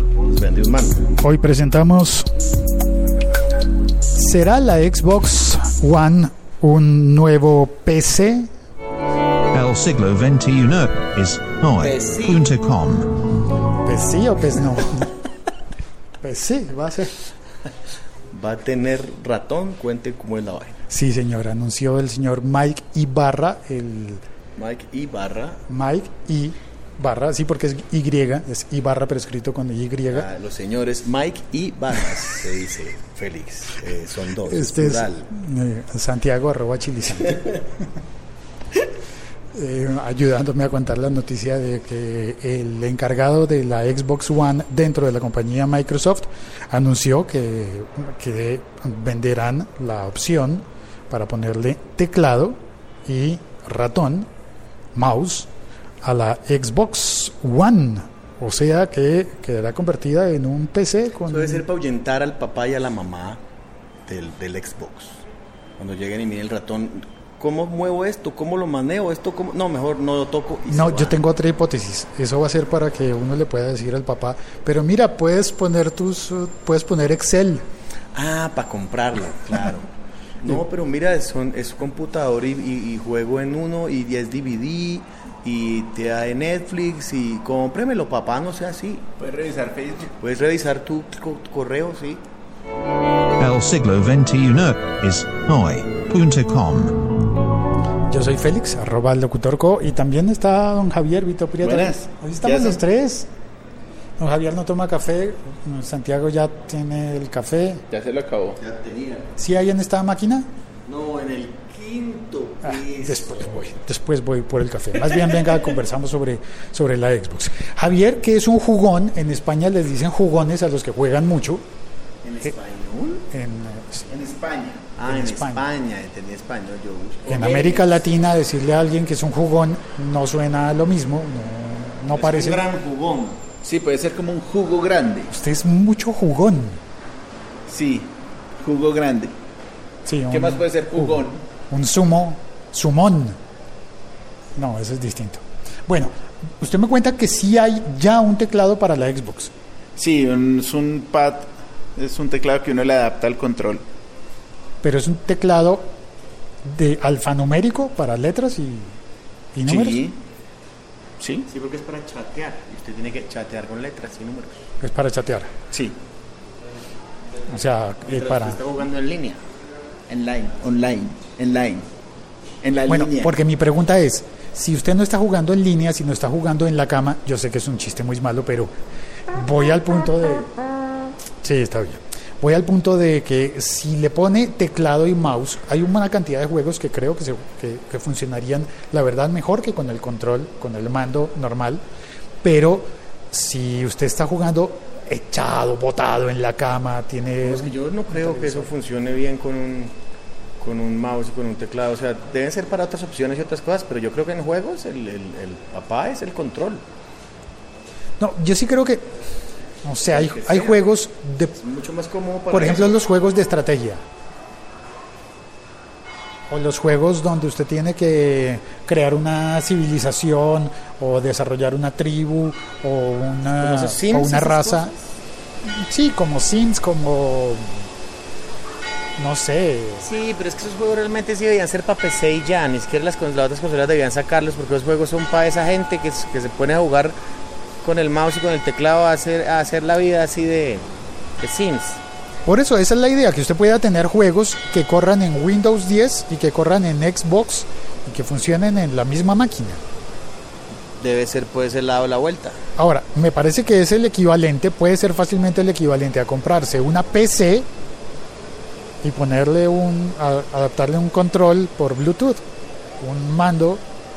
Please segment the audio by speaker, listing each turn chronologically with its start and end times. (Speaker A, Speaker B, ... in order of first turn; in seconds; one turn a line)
Speaker A: 0.2-1.0
Speaker B: 1.2-2.3
Speaker B: 4.2-8.5
Speaker C: 9.5-13.2
Speaker A: 11.8-12.5
Speaker B: 13.8-15.1
Speaker B: 16.2-17.1
Speaker A: 18.3-20.8
Speaker B: 20.9-24.2
Speaker A: 24.6-25.6
Speaker B: 25.7-30.3
Speaker A: 30.1-35.3
Speaker B: 34.5-37.7
Speaker B: 39.5-54.3
Speaker B: 54.9-55.5
Speaker B: 56.0-61.6
Speaker A: 61.3-63.4
Speaker A: 64.0-65.2
Speaker A: 65.8-71.2
Speaker B: 70.7-77.6
Speaker A: 78.1-79.9
Speaker A: 80.4-89.0
Speaker D: 89.2-90.1
Speaker A: 90.2-92.2
Speaker C: 93.4-97.0
Speaker B: 98.1-103.3
Speaker D: 101.6-102.8
Speaker B: 104.2-107.8
Speaker D: 107.9-108.6
Speaker A: 108.6-109.3
Speaker B: 109.4-110.5
Speaker A: 110.8-113.4
Speaker B: 112.6-121.6
Speaker A: 122.2-123.2
Speaker B: 123.3-124.1
Speaker D: 124.1-124.8
Speaker A: 125.0-127.9
Speaker B: 125.1-125.6
Speaker B: 127.3-132.7
Speaker A: 132.1-133.4
Speaker D: 133.6-135.3
Speaker B: 135.3-136.8
Speaker D: 137.7-139.3
Speaker B: 140.1-143.4
Speaker D: 140.3-141.4
Speaker B: 144.6-149.5
Speaker D: 150.0-153.8
Speaker B: 154.8-155.9
Speaker B: 156.7-158.9
Speaker B: 159.5-160.0
Speaker D: 159.7-160.2
Speaker D: 161.2-161.5
Speaker A: 161.5-164.6
Speaker B: 164.8-165.5
Speaker D: 165.7-166.0
Speaker B: 167.5-168.6
Speaker A: 168.1-169.4
Speaker D: 170.1-171.9
Speaker D: 172.6-173.3
Speaker B: 172.9-178.7
Speaker B: 179.3-180.5
Speaker B: 181.4-191.8
Speaker B: 192.4-198.7
Speaker A: 197.4-199.9
Speaker A: 200.6-206.8
Speaker B: 208.2-209.1
Speaker B: 209.8-211.5
Speaker A: 210.1-210.8
Speaker A: 211.5-213.0
Speaker B: 212.5-214.0
Speaker B: 216.5-224.9
Speaker A: 223.6-225.0
Speaker B: 225.6-227.7
Speaker B: 229.2-230.0
Speaker A: 230.0-237.2
Speaker A: 237.8-240.8
Speaker A: 241.4-242.0
Speaker B: 242.4-249.8
Speaker A: 251.0-252.6
Speaker B: 252.8-257.7
Speaker B: 259.0-262.4
Speaker B: 263.0-263.8